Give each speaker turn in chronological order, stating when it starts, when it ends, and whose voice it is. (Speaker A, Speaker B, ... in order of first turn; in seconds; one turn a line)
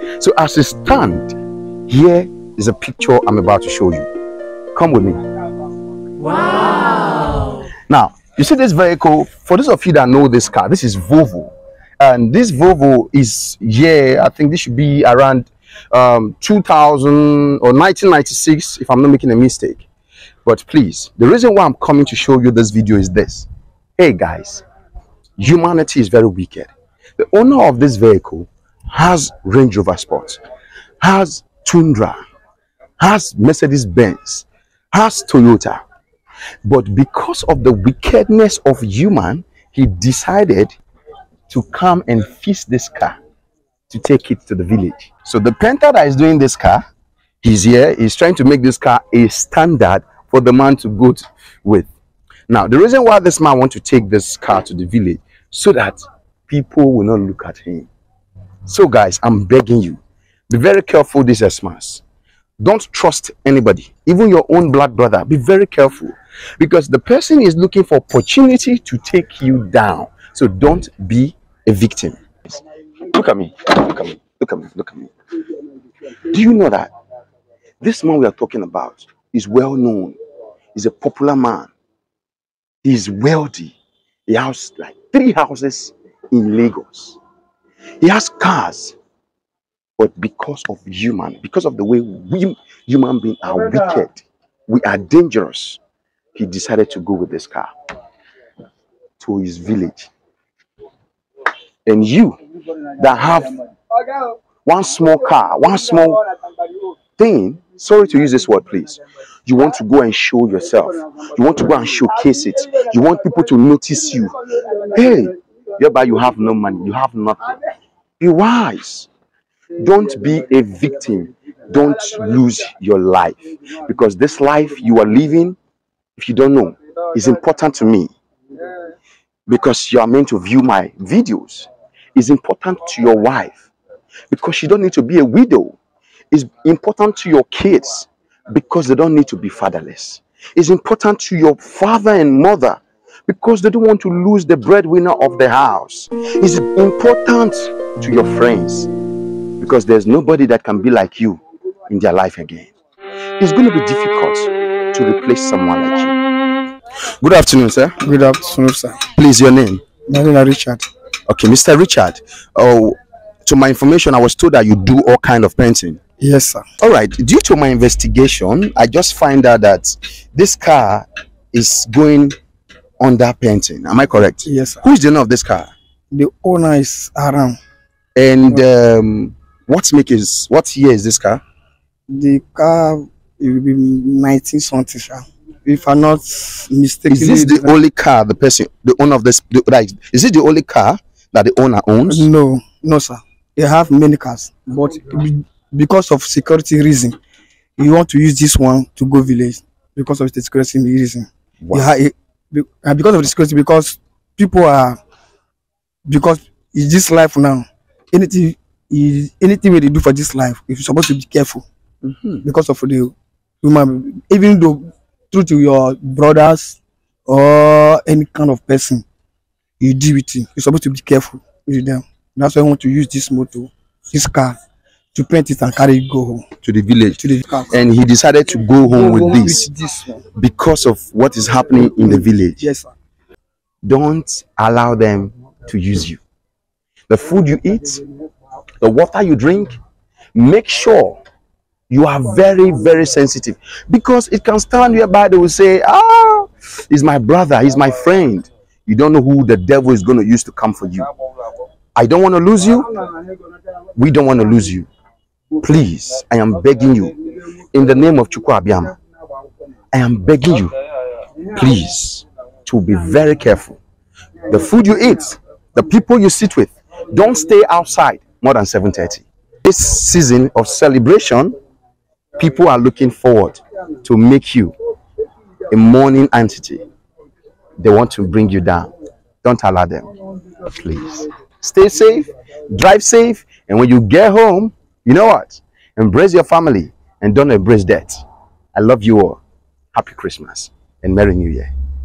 Speaker A: 0.2-1.3
Speaker A: 1.9-4.1
Speaker A: 4.8-5.2
Speaker A: 6.3-19.9
Speaker A: 20.4-24.6
Speaker A: 25.4-30.4
Speaker A: 31.0-32.2
Speaker A: 33.0-35.8
Speaker A: 36.6-40.7
Speaker A: 41.5-43.2
Speaker A: 43.9-46.8
Speaker A: 47.4-51.9
Speaker A: 52.5-57.9
Speaker A: 58.7-62.0
Speaker A: 62.6-72.2
Speaker A: 73.0-75.1
Speaker A: 76.2-76.9
Speaker A: 77.8-80.2
Speaker A: 80.8-81.7
Speaker A: 82.8-87.2
Speaker A: 88.0-89.0
Speaker A: 90.0-95.8
Speaker A: 96.3-97.7
Speaker A: 99.2-100.1
Speaker A: 101.9-103.6
Speaker A: 104.7-106.2
Speaker A: 107.2-117.6
Speaker A: 118.2-119.1
Speaker A: 119.8-125.6
Speaker A: 126.2-128.1
Speaker A: 129.5-133.6
Speaker A: 134.3-135.8
Speaker A: 136.3-148.9
Speaker A: 149.6-152.7
Speaker A: 153.4-156.2
Speaker A: 157.2-158.0
Speaker B: 158.0-159.0
Speaker A: 159.1-159.8
Speaker B: 160.1-160.8
Speaker A: 161.3-166.0
Speaker B: 166.2-166.7
Speaker A: 166.8-172.3
Speaker A: 173.0-175.7
Speaker B: 174.4-174.8
Speaker B: 176.1-177.6
Speaker A: 178.2-181.4
Speaker B: 182.1-187.8
Speaker A: 187.1-192.3
Speaker B: 192.1-197.2
Speaker B: 197.8-205.0
Speaker A: 201.6-201.9
Speaker B: 206.1-211.6
Speaker A: 212.0-212.4
Speaker B: 212.4-219.1
Speaker B: 219.8-224.6
Speaker B: 225.1-226.4
Speaker A: 226.6-229.7
Speaker B: 227.2-227.9
Speaker B: 228.8-230.2
Speaker A: 230.3-232.6
Speaker B: 232.0-232.9
Speaker A: 233.8-236.2
Speaker A: 237.1-238.0
Speaker A: 238.8-239.8
Speaker A: 240.3-241.2
Speaker A: 241.9-251.1
Speaker A: 251.9-252.9
Speaker A: 254.0-254.9
Speaker A: 255.6-257.2
Speaker A: 257.7-259.0
Speaker A: 259.9-260.7
Speaker A: 261.5-263.8
Speaker A: 264.5-271.6
Speaker A: 272.4-274.7
Speaker A: 275.7-276.8
Speaker A: 277.8-278.9
Speaker A: 279.4-280.1
Speaker A: 280.6-288.2
Speaker A: 288.8-289.4
Speaker A: 289.9-291.7